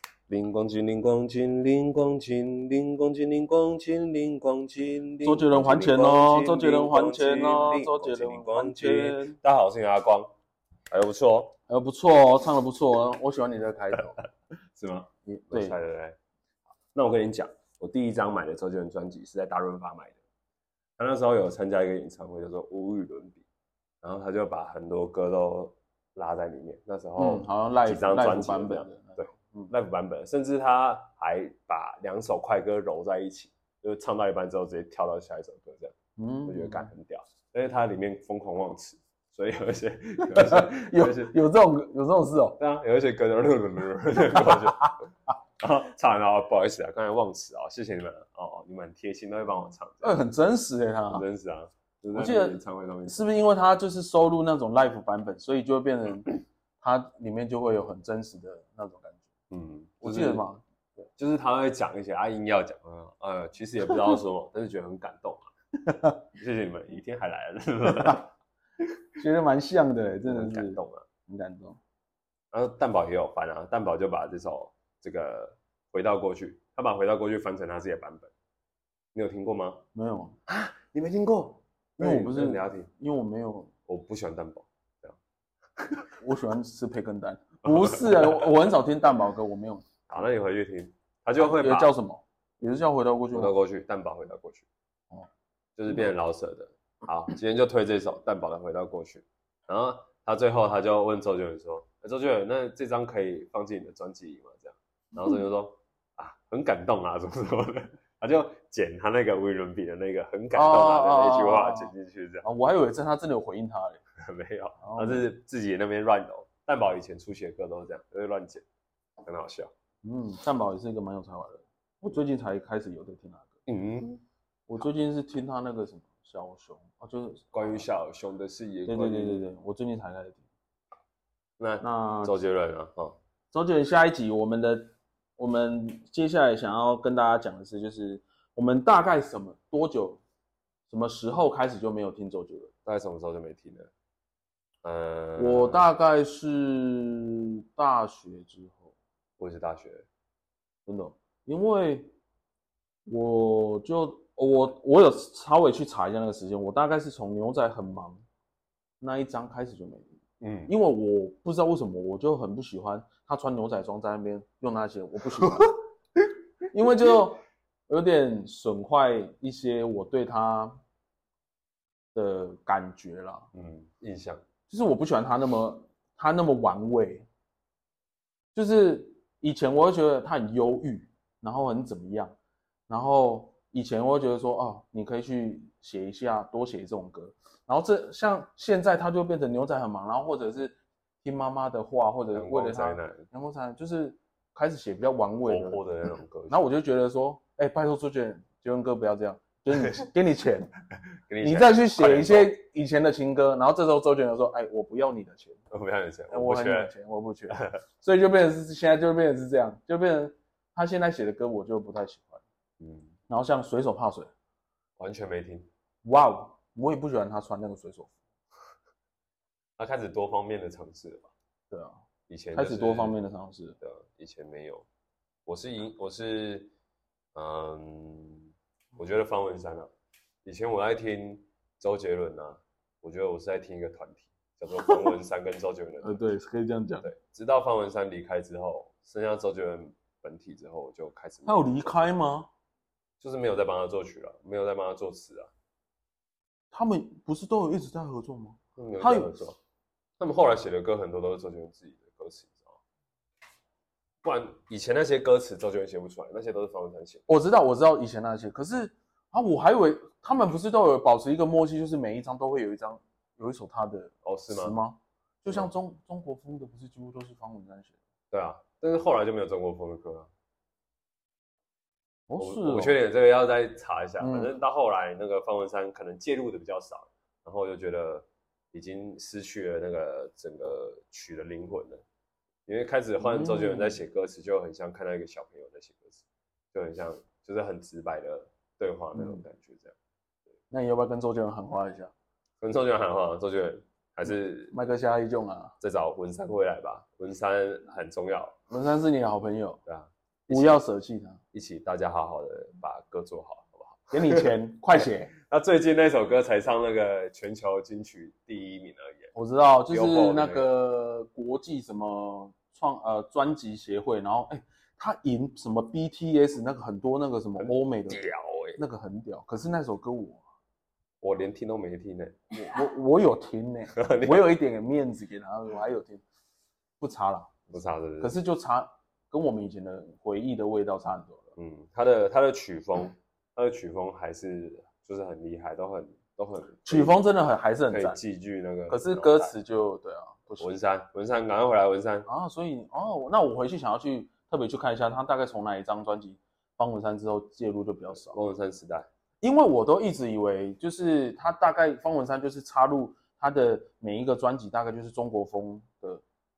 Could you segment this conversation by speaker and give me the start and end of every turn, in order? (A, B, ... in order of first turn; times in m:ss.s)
0:00.3-0:10.3 A
0:05.2-0:09.4 B
0:10.9-0:11.6 A
0:11.7-0:14.2 B
0:14.8-0:16.2 A
0:15.2-0:15.8 B
0:16.9-0:20.2 A
0:21.0-0:23.4 A
0:24.0-0:41.4 A
0:27.2-0:29.7 B
0:36.2-0:36.9 B
0:40.2-0:42.6 B
0:42.6-0:50.2 A
0:50.0-0:51.2 B
0:51.1-0:53.2 A
0:52.1-0:59.3 B
0:59.5-1:00.4 A
1:00.0-1:00.6 B
1:01.2-1:05.5 A
1:06.3-1:08.3 A
1:09.2-1:11.8 B
1:10.3-1:11.1 A
1:12.5-1:18.3 A
1:19.1-1:19.8 A
1:20.0-1:20.4 B
1:20.5-1:22.9 A
1:22.0-1:23.7 B
1:23.9-1:25.2 A
1:25.8-1:26.0 A
1:26.2-1:29.9 B
1:27.9-1:28.5 A
1:30.1-1:31.9 A
1:31.4-1:33.5 B
1:33.3-1:34.7 A
1:35.8-1:52.4 A
1:50.5-1:54.0 B
1:54.2-1:58.6 A
1:54.8-1:55.3 B
1:59.2-1:59.7 A
2:00.0-2:03.5 B
2:03.7-2:04.2 A
2:04.7-2:07.7 B
2:07.5-2:09.4 A
2:08.8-2:10.4 B
2:11.6-2:13.2 A
2:11.8-2:12.3 B
2:13.5-2:20.2 B
2:20.9-2:22.7 B
2:22.8-2:23.9 A
2:24.8-2:25.8 A
2:25.4-2:28.9 B
2:29.4-2:30.0 A
2:30.8-2:32.1 B
2:33.0-2:38.2 B
2:39.0-2:40.1 B
2:40.4-2:40.7 A
2:40.7-2:45.8 B
2:45.4-2:45.7 A
2:46.7-2:50.8 B
2:52.1-2:53.5 B
2:53.5-2:54.4 A
2:54.7-2:57.3 B
2:58.5-3:02.3 B
3:02.9-3:15.8 B
3:12.3-3:13.2 A
3:15.4-3:16.7 A
3:16.5-3:20.7 B
3:21.3-3:22.5 A
3:21.4-3:25.6 B
3:25.7-3:26.9 A
3:26.3-3:32.4 B
3:27.5-3:27.8 A
3:32.8-3:33.1 A
3:33.3-3:34.3 B
3:35.0-3:35.7 A
3:36.0-3:38.2 B
3:39.8-3:41.3 A
3:41.7-3:42.0 B
3:42.3-3:43.2 A
3:42.5-3:43.8 B
3:43.8-3:44.8 A
3:45.4-3:46.7 A
3:47.3-3:49.9 A
3:50.4-3:56.2 A
3:56.0-3:57.1 B
3:57.0-4:01.9 A
4:01.4-4:02.5 B
4:03.2-4:05.5 A
4:06.7-4:09.3 B
4:08.8-4:09.6 A
4:10.2-4:12.8 A
4:14.2-4:17.2 A
4:17.3-4:28.0 B
4:24.2-4:24.8 A
4:28.3-4:30.3 A
4:32.3-4:33.0 B
4:32.4-4:42.0 A
4:34.2-4:34.5 B
4:42.7-4:49.9 A
4:43.2-4:44.0 B
4:49.1-4:49.4 B
4:50.7-4:52.1 B
4:52.6-4:54.8 A
4:54.7-4:55.8 B
4:55.8-4:58.6 A
4:58.7-4:59.8 B
4:59.9-5:00.8 A
5:00.5-5:01.4 B
5:01.5-5:09.3 A
5:04.1-5:05.3 B
5:09.3-5:18.2 B
5:09.9-5:10.7 A
5:17.6-5:18.8 A
5:18.8-5:20.4 B
5:21.2-5:22.4 A
5:22.5-5:26.2 B
5:23.9-5:24.5 A
5:27.0-5:27.6 B
5:27.7-5:28.4 A
5:28.2-5:31.5 B
5:31.6-5:37.2 A
5:36.9-5:38.2 B
5:37.9-5:39.5 A
5:38.9-5:40.7 B
5:40.6-5:42.3 A
5:42.3-5:48.4 B
5:48.2-5:49.1 A
5:49.4-5:56.2 B